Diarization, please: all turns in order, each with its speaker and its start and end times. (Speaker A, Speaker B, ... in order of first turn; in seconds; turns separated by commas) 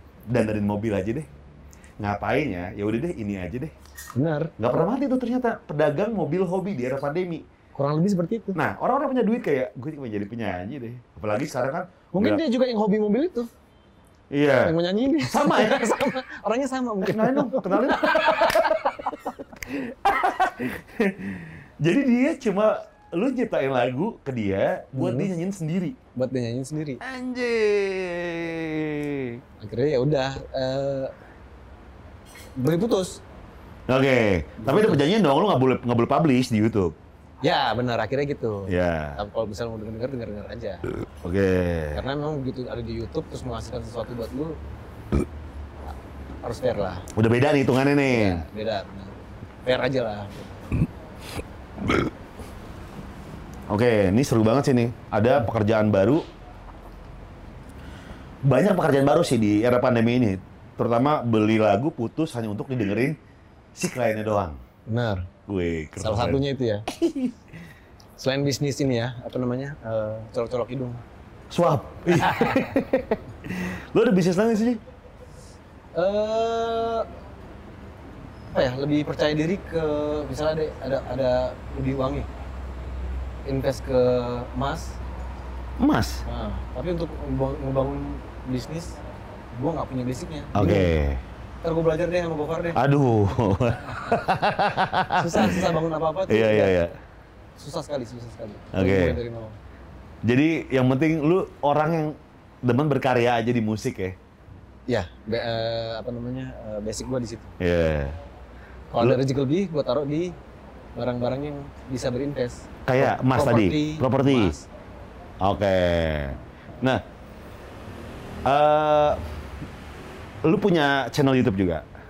Speaker A: 0.3-1.3, Speaker A: 2.0-3.7, Speaker B: 4.2-4.5, Speaker A: 4.6-7.5, Speaker B: 7.8-8.6, Speaker A: 8.6-12.4, Speaker B: 12.1-13.5, Speaker A: 14.3-15.9, Speaker B: 14.6-19.2, Speaker A: 17.0-26.0, Speaker B: 24.9-25.3, Speaker B: 26.1-27.0, Speaker A: 27.0-29.4, Speaker B: 29.6-31.1, Speaker B: 32.6-33.2, Speaker A: 33.9-37.0, Speaker B: 34.6-35.0, Speaker B: 37.4-40.9, Speaker A: 38.7-39.2, Speaker A: 41.2-42.0, Speaker B: 41.9-44.6, Speaker B: 46.4-47.0, Speaker A: 47.2-48.4, Speaker B: 48.1-50.7, Speaker A: 53.7-56.2, Speaker A: 58.5-63.2, Speaker A: 63.8-64.6, Speaker B: 64.9-65.3, Speaker A: 65.5-67.4, Speaker B: 66.0-66.9, Speaker B: 68.2-71.0, Speaker A: 71.5-74.8, Speaker B: 72.1-72.7, Speaker B: 76.0-77.1, Speaker B: 78.5-82.3, Speaker B: 83.5-85.0, Speaker A: 85.8-86.2, Speaker B: 86.2-89.0, Speaker B: 89.5-90.9, Speaker A: 90.5-91.2, Speaker B: 91.6-92.8, Speaker A: 92.8-95.6, Speaker B: 95.1-96.8, Speaker A: 96.3-97.0, Speaker B: 97.6-99.6, Speaker A: 98.7-99.2, Speaker A: 100.2-104.2, Speaker B: 104.9-107.5, Speaker A: 107.6-108.2, Speaker B: 108.9-110.3, Speaker B: 111.0-114.7, Speaker A: 112.9-114.5, Speaker A: 115.4-117.0, Speaker A: 118.5-119.2, Speaker A: 120.4-121.9